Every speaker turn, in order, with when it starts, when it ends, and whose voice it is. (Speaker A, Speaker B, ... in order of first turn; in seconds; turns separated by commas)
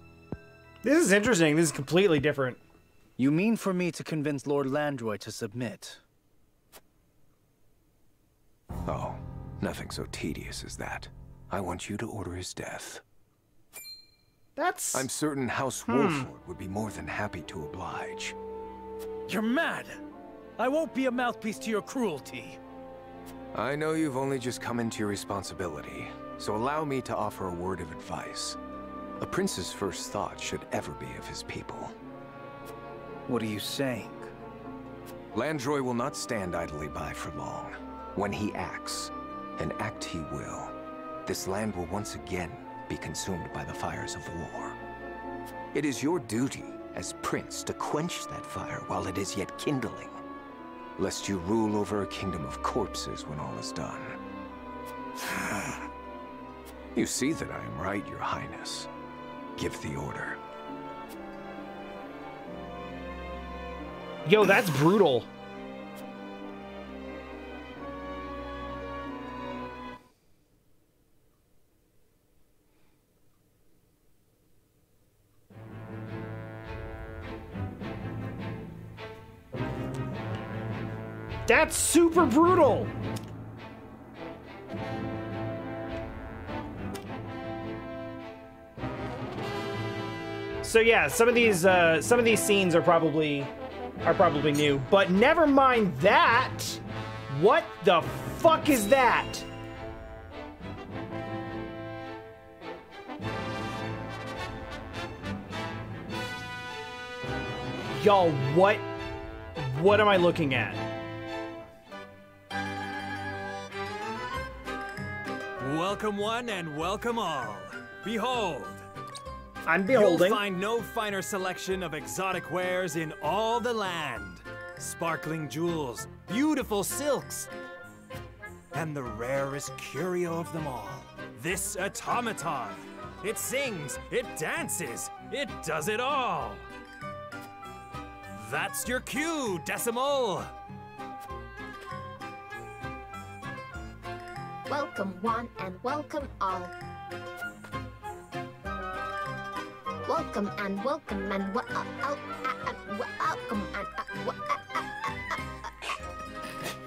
Speaker A: 0.8-2.6, Speaker B: 3.2-6.0, Speaker C: 8.8-13.0, Speaker A: 14.6-15.1, Speaker C: 14.9-18.4, Speaker A: 15.9-16.3, Speaker B: 19.3-20.0, Speaker B: 20.6-22.6, Speaker C: 23.5-28.6, Speaker C: 29.2-31.9, Speaker B: 33.3-34.3, Speaker C: 35.3-44.8, Speaker C: 45.7-50.1, Speaker C: 51.0-54.2, Speaker C: 56.9-58.9, Speaker C: 59.5-60.4, Speaker A: 64.2-65.3, Speaker A: 81.5-82.9, Speaker A: 90.6-93.5, Speaker A: 94.0-99.5, Speaker A: 108.0-108.8, Speaker A: 109.6-110.8, Speaker D: 115.6-118.9, Speaker A: 119.7-120.4, Speaker D: 119.9-127.5, Speaker D: 128.7-136.6, Speaker D: 138.3-140.5, Speaker E: 144.7-146.7, Speaker E: 150.1-155.4